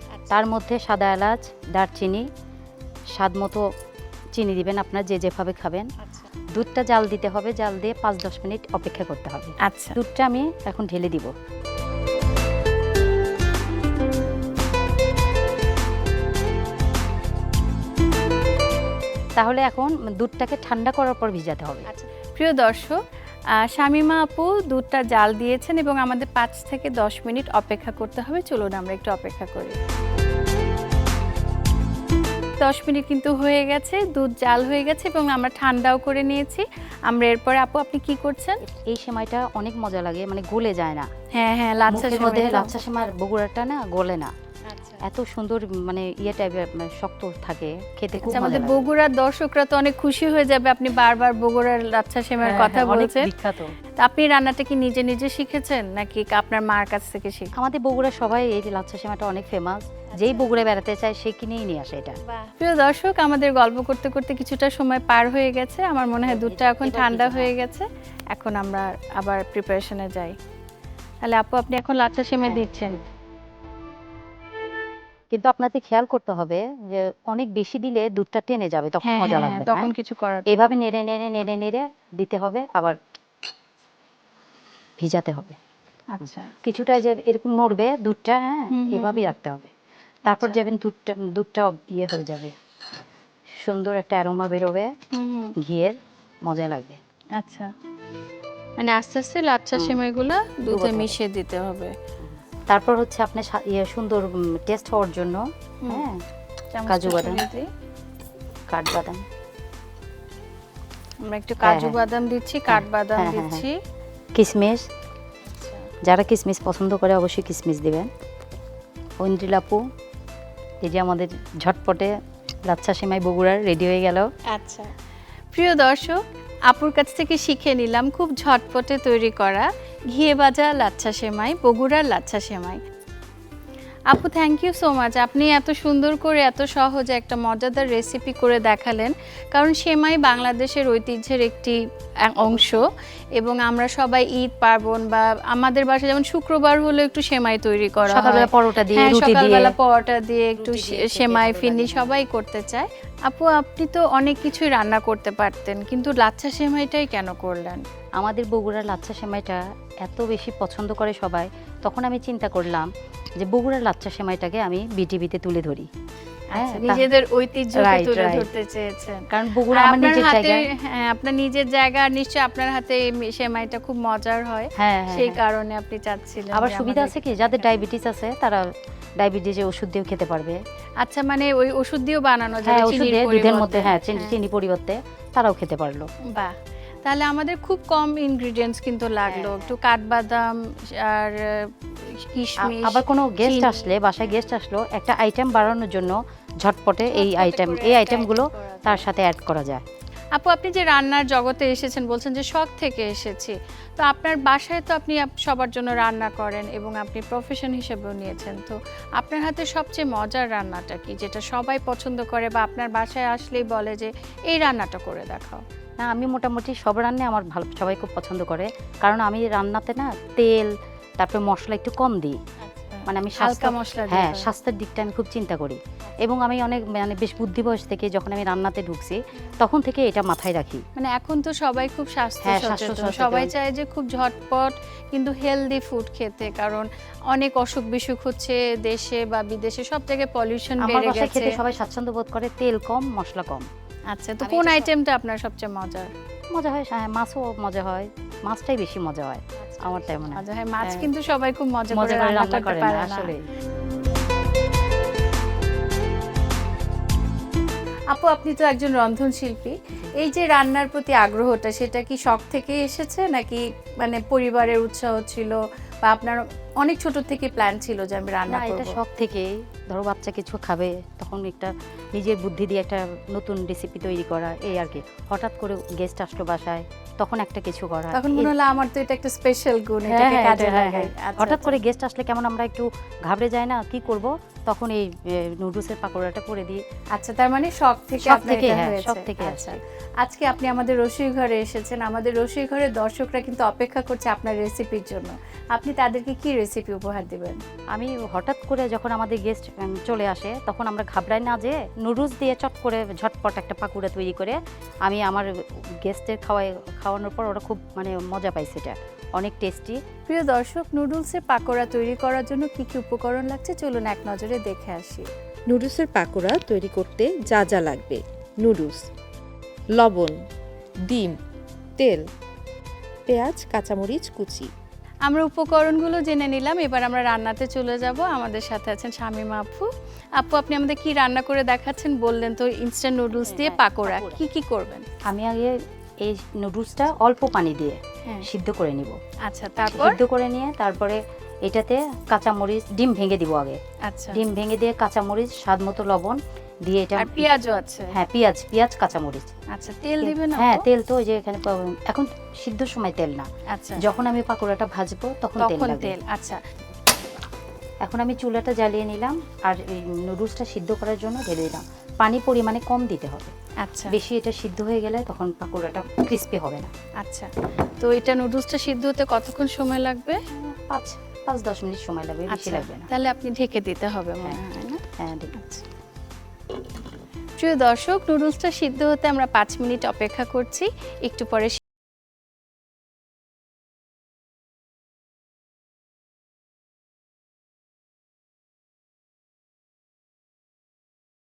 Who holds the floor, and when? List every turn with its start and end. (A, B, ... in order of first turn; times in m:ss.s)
0:00.2-0:00.4 A
0:00.3-0:02.3 B
0:03.2-0:03.6 B
0:04.4-0:05.9 B
0:06.0-0:06.3 A
0:06.5-0:11.3 B
0:09.6-0:10.0 A
0:19.4-0:21.9 B
0:21.9-0:23.0 A
0:23.6-0:29.8 A
0:32.6-0:38.6 A
0:38.6-0:41.1 B
0:41.4-0:42.7 A
0:41.9-0:44.3 B
0:44.7-0:45.0 A
0:45.0-0:48.9 B
0:48.2-0:53.3 A
0:52.4-0:53.8 B
0:54.0-0:57.5 A
0:57.6-1:02.2 B
1:00.1-1:00.6 A
1:02.2-1:10.4 A
1:06.2-1:07.5 B
1:11.2-1:13.0 A
1:15.3-1:19.9 B
1:19.0-1:20.5 A
1:20.5-1:23.0 B
1:25.0-1:25.6 B
1:26.1-1:26.5 A
1:26.6-1:29.7 B
1:28.7-1:29.3 A
1:30.3-1:32.6 B
1:30.3-1:30.6 A
1:33.6-1:34.9 B
1:35.1-1:35.6 A
1:35.6-1:37.0 B
1:37.4-1:37.7 A
1:38.8-1:41.9 A
1:39.8-1:40.0 B
1:40.6-1:41.2 B
1:42.2-1:46.2 B
1:45.8-1:46.1 A
1:46.7-1:47.7 A
1:46.9-1:47.4 B
1:48.7-1:49.2 B
1:51.2-1:53.8 A
1:51.6-1:52.0 B
1:52.7-1:53.6 B
1:54.4-1:54.9 B
1:55.5-1:55.9 A
1:56.0-1:58.1 B
1:59.2-1:59.8 B
2:00.8-2:02.1 B
2:02.7-2:04.3 B
2:04.5-2:04.9 A
2:05.5-2:12.8 A
2:14.1-2:37.8 A
2:22.4-2:22.9 B
2:28.0-2:29.8 B
2:30.6-2:32.2 B
2:38.2-2:45.9 B
2:46.5-2:57.8 A
2:46.6-2:47.1 B
2:47.7-2:48.5 B
2:49.3-2:50.7 B
2:54.8-2:55.4 B
2:56.5-3:00.6 B
3:01.0-3:04.4 A
3:02.6-3:06.1 B
3:06.3-3:13.9 A
3:09.2-3:09.8 B
3:12.6-3:19.8 B
3:17.1-3:19.1 A
3:20.4-3:35.6 A
3:36.0-3:42.4 B
3:42.6-3:44.5 A
3:43.1-3:50.8 B
3:46.1-3:46.4 A
3:51.0-4:01.6 A
3:52.4-3:53.5 B
4:00.8-4:03.7 B
4:04.1-4:06.1 A
4:04.4-4:04.9 B
4:06.5-4:11.1 B
4:09.6-4:13.3 A
4:11.9-4:13.4 B
4:18.1-4:29.0 A
4:28.5-4:38.5 B
4:34.7-4:35.0 A
4:38.1-4:41.8 A
4:40.1-4:46.8 B
4:47.2-4:57.6 A
4:48.2-4:49.8 B
4:57.9-5:10.0 B
5:10.3-5:15.3 A
5:15.7-5:19.1 C
5:20.0-5:20.4 C
5:21.0-5:21.4 C
5:22.0-5:22.3 C
5:23.3-5:24.7 C
5:25.3-5:35.1 A
5:33.3-5:34.4 B
5:35.3-5:39.2 B
5:39.5-5:40.2 A
5:39.9-5:43.8 B
5:44.0-5:44.4 A
5:44.3-5:47.5 B
5:47.2-5:48.2 A
5:48.1-5:49.6 B
5:49.7-5:50.8 A
5:50.2-5:53.5 B
5:53.7-5:54.0 A
5:54.0-5:56.2 B
5:55.6-5:56.6 A
5:58.0-6:03.5 B
6:03.8-6:04.2 A
6:04.1-6:06.9 B
6:07.2-6:10.4 A
6:10.5-6:13.1 B
6:12.5-6:15.0 A
6:15.2-6:15.5 B
6:15.5-6:15.8 A
6:17.6-6:21.8 A